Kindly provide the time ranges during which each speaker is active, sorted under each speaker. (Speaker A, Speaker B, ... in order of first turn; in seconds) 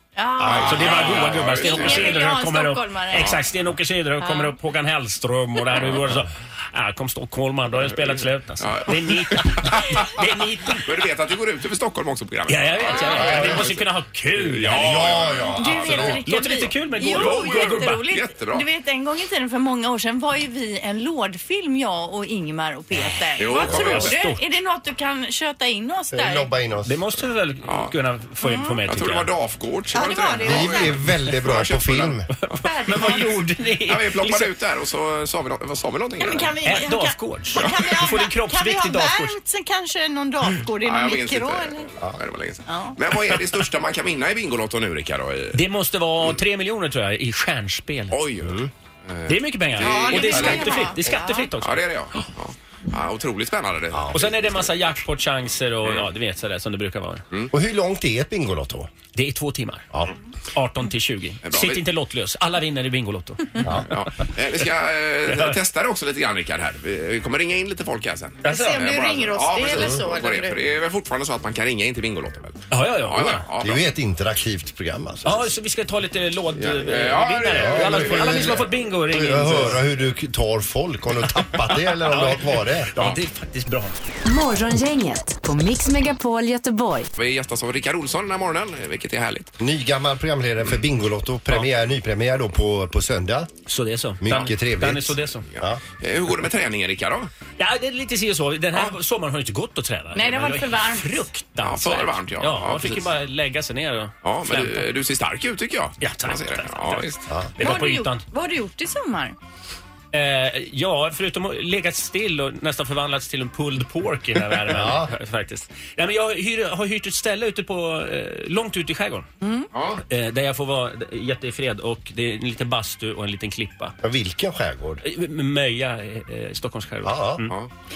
Speaker A: 0.1-3.4, 4.2-4.5, 13.0-13.3, 15.5-26.5, 28.4-28.8, 29.9-31.0, 32.6-33.4, 36.2-41.9, 42.7-43.0, 49.8-51.5, 68.5-70.6, 100.1-101.2, 107.6-109.3, 119.4-119.7
Speaker B: 0.4-1.7, 13.1-13.7, 14.7-16.2, 26.1-27.0, 30.4-32.3, 48.4-48.7, 50.4-50.7, 53.9-54.3, 57.5-58.9, 63.6-63.9, 69.7-70.0, 73.6-75.5, 77.5-82.9, 89.6-93.5, 94.2-95.8, 114.7-115.1, 124.0-125.0, 127.0-127.4
Speaker C: 0.4-2.3, 8.1-15.6, 17.1-18.7, 23.4-24.2, 27.6-27.9, 28.9-32.6, 33.9-36.5, 37.6-38.0, 40.8-45.6, 48.1-50.8, 51.6-54.7, 61.4-61.8, 63.9-73.8, 76.5-78.6, 87.2-89.5, 95.6-97.3, 101.6-103.1, 104.2-107.2, 119.7-120.0
Speaker D: 0.4-10.9, 12.5-15.2, 15.7-18.0, 23.4-24.4, 26.9-29.3, 32.5-34.5, 36.6-39.4, 45.5-48.2, 49.3-51.8, 54.1-57.2, 59.1-59.9, 60.5-63.6, 65.3-65.5, 68.4-68.8, 72.7-73.5, 75.2-79.8, 82.1-84.0, 93.7-95.5, 97.6-104.9, 106.0-108.2, 110.1-119.3, 120.1-123.9, 125.0-127.6
Speaker E: 84.2-87.1